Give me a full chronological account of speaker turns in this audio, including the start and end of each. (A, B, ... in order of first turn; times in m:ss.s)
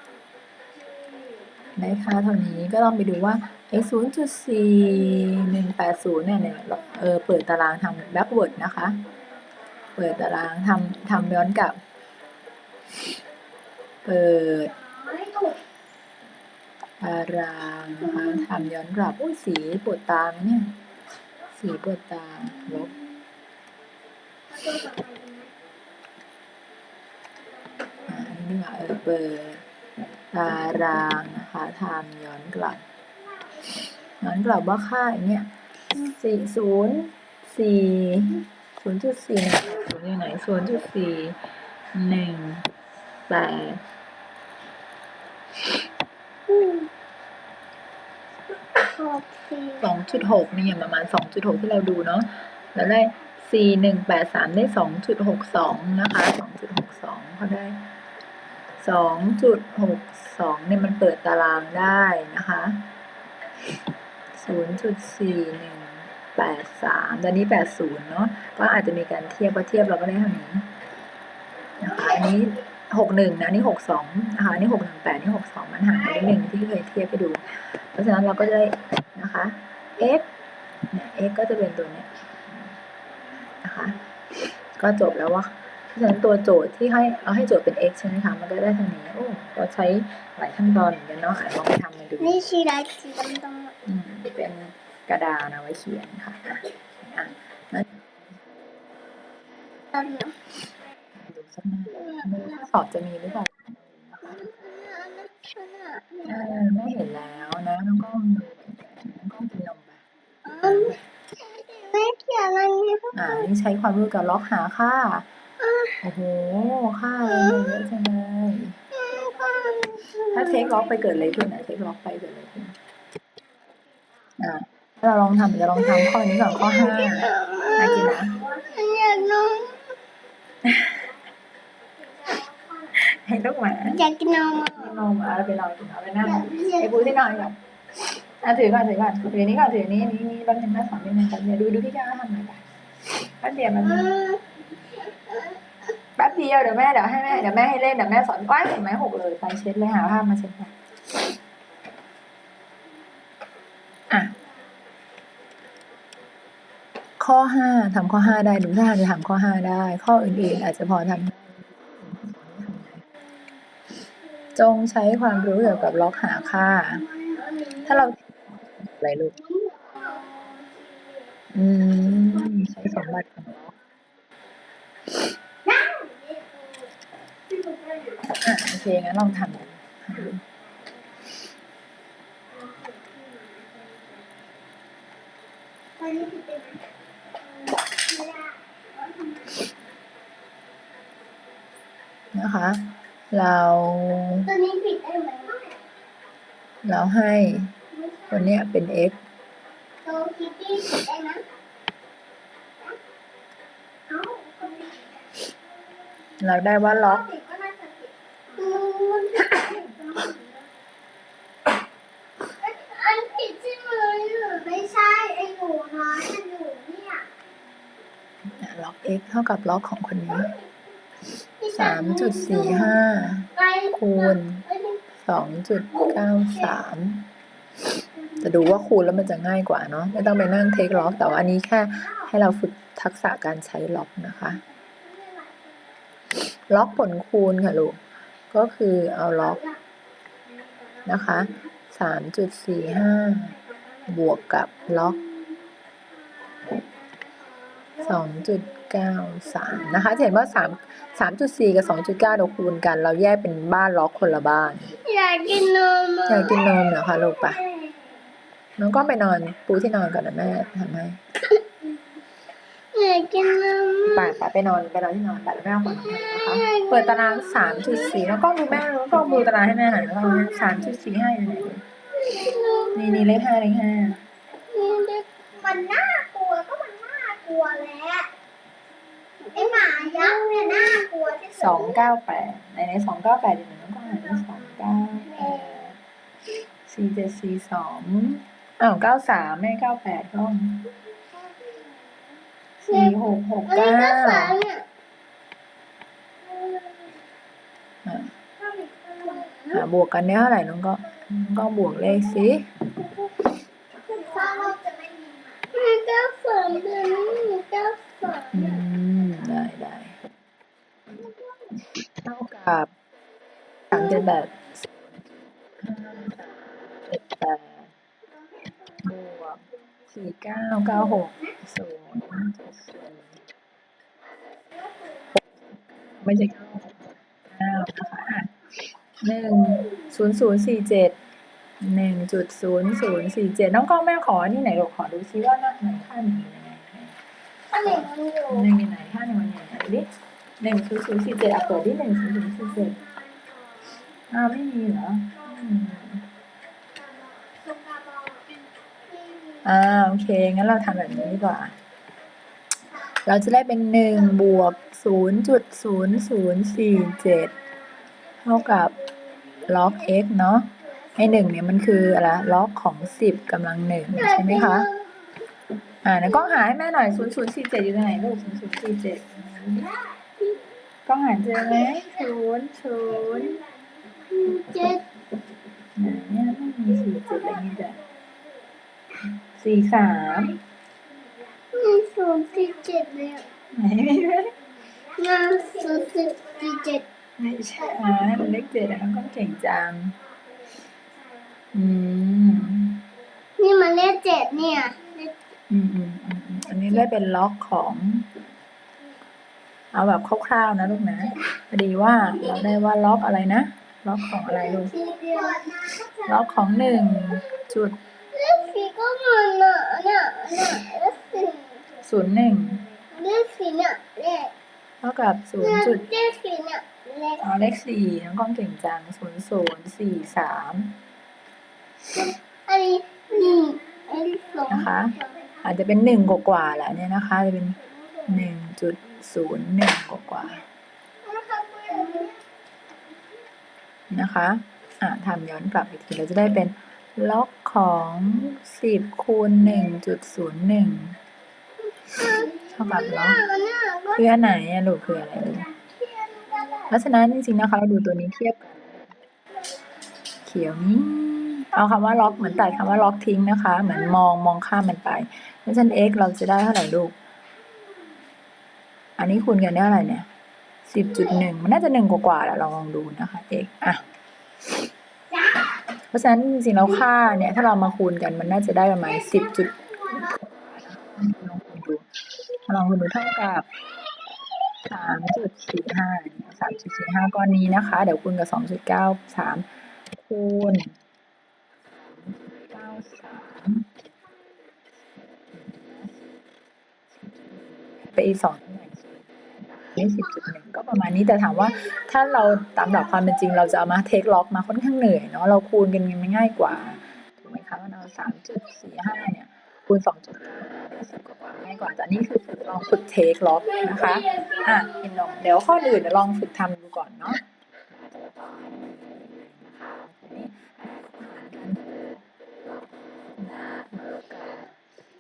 0:01.8-0:09.0 A
0:10.0-0:11.8 A
0:14.0-0:14.7 A
0:14.9-0:15.6 B
0:17.0-0:20.7 A
0:21.6-0:23.0 A
0:24.5-0:25.5 B
0:28.0-0:29.7 A
0:30.3-0:32.8 A
0:34.2-0:41.4 A
0:41.9-0:42.7 A
0:43.3-0:43.8 A
0:46.5-0:46.9 B
0:48.8-0:49.9 B
0:49.8-0:57.8 A
0:58.8-1:02.9 A
1:04.4-1:10.7 A
1:11.8-1:20.3 A
1:20.9-1:22.6 A
1:23.5-1:24.0 A
1:24.8-1:32.5 A
1:32.2-1:33.8 B
1:33.8-1:38.6 A
1:39.9-1:40.4 B
1:41.2-1:44.5 A
1:42.0-1:42.3 B
1:44.4-1:46.4 B
1:46.2-1:51.1 A
1:50.5-1:53.5 B
1:53.1-1:55.3 A
1:55.6-1:56.0 B
1:56.0-1:58.8 A
1:57.3-1:57.7 B
1:58.9-2:00.8 B
2:00.2-2:02.8 A
2:04.4-2:08.5 A
2:06.5-2:10.0 B
2:10.6-2:11.1 A
2:12.9-2:14.0 A
2:13.9-2:15.0 B
2:14.6-2:24.4 A
2:16.2-2:17.2 B
2:24.0-2:24.4 B
2:25.2-2:25.5 B
2:26.2-2:30.8 A
2:34.1-2:34.4 A
2:37.2-2:43.0 A
2:44.6-2:47.0 A
2:47.0-2:48.1 B
2:47.9-2:49.4 A
2:49.4-2:51.2 B
2:51.5-2:53.8 A
2:55.6-2:56.9 B
2:57.5-2:58.2 B
2:58.3-3:00.4 A
3:02.7-3:03.8 B
3:06.0-3:06.8 B
3:07.6-3:08.6 B
3:09.1-3:09.5 B
3:12.3-3:14.5 A
3:14.4-3:15.8 B
3:16.8-3:17.7 A
3:17.9-3:18.4 B
3:18.3-3:19.2 A
3:20.0-3:21.4 B
3:24.1-3:25.3 B
3:26.4-3:27.3 A
3:27.3-3:30.6 B
3:32.6-3:37.3 B
3:38.6-3:40.6 A
3:41.6-3:43.0 B
3:41.7-3:44.6 A
3:43.5-3:45.0 B
3:45.2-3:47.3 A
3:48.4-3:54.6 A
3:54.9-3:55.6 B
3:56.5-3:58.0 A
3:58.5-3:59.6 A
4:01.0-4:05.2 A
4:03.7-4:04.0 B
4:05.2-4:05.6 B
4:06.4-4:06.9 B
4:07.4-4:08.0 B
4:08.0-4:15.0 A
4:15.0-4:16.6 B
4:16.3-4:17.6 A
4:18.8-4:21.2 A
4:22.9-4:24.4 B
4:24.0-4:31.8 A
4:26.2-4:28.4 B
4:30.1-4:30.8 B
4:32.1-4:33.3 B
4:32.9-4:34.2 A
4:34.7-4:38.3 B
4:39.4-4:42.0 B
4:41.6-4:46.0 A
4:45.3-4:45.7 B
4:46.9-4:50.9 A
4:51.4-4:51.9 B
4:52.8-4:54.6 A
4:52.9-4:54.9 B
4:56.5-4:57.2 B
4:58.0-4:58.3 A
4:58.6-4:59.8 B
4:59.7-5:03.0 A
5:04.0-5:08.8 B
5:08.5-5:10.2 A
5:12.2-5:12.9 A
5:13.9-5:17.9 A
5:19.0-5:23.4 A
5:25.4-5:28.5 A
5:29.1-5:31.2 A
5:31.8-5:37.2 A
5:37.7-5:38.7 B
5:37.8-5:40.1 A
5:40.6-5:43.0 A
5:44.3-5:46.3 A
5:47.1-5:48.6 B
5:49.1-5:49.6 B
5:49.6-5:51.8 A
5:53.1-5:57.6 A
5:58.4-5:59.0 A
5:59.6-6:04.9 A
6:04.1-6:05.2 B
6:06.0-6:10.0 A
6:11.1-6:13.7 A
6:14.3-6:15.1 B
6:16.0-6:18.0 A
6:19.4-6:20.6 A
6:21.7-6:23.5 B
6:23.7-6:24.6 A
6:25.1-6:27.0 B
6:27.4-6:30.2 A
6:31.7-6:33.0 A
6:33.6-6:35.4 B
6:35.7-6:38.3 A
6:39.9-6:45.0 A
6:44.8-6:47.4 B
6:46.2-6:48.0 A
6:48.3-6:51.8 B
6:52.0-6:52.9 A
6:53.1-6:54.5 B
6:55.0-6:56.0 A
6:55.6-6:57.4 B
6:57.4-7:01.0 A
7:02.1-7:05.5 B
7:04.7-7:10.6 A
7:11.2-7:12.4 B
7:14.1-7:21.2 A
7:22.0-7:24.2 B
7:22.6-7:23.4 A
7:24.2-7:25.7 A
7:25.8-7:26.9 B
7:26.9-7:29.1 A
7:30.4-7:37.2 A
7:39.2-7:40.3 A
7:40.9-7:44.0 A
7:46.1-7:53.7 A
7:54.8-8:01.0 A
8:02.0-8:03.9 A
8:05.5-8:06.1 A
8:07.2-8:27.4 A
8:23.8-8:24.9 B
8:28.0-8:32.2 A
8:33.4-8:34.8 A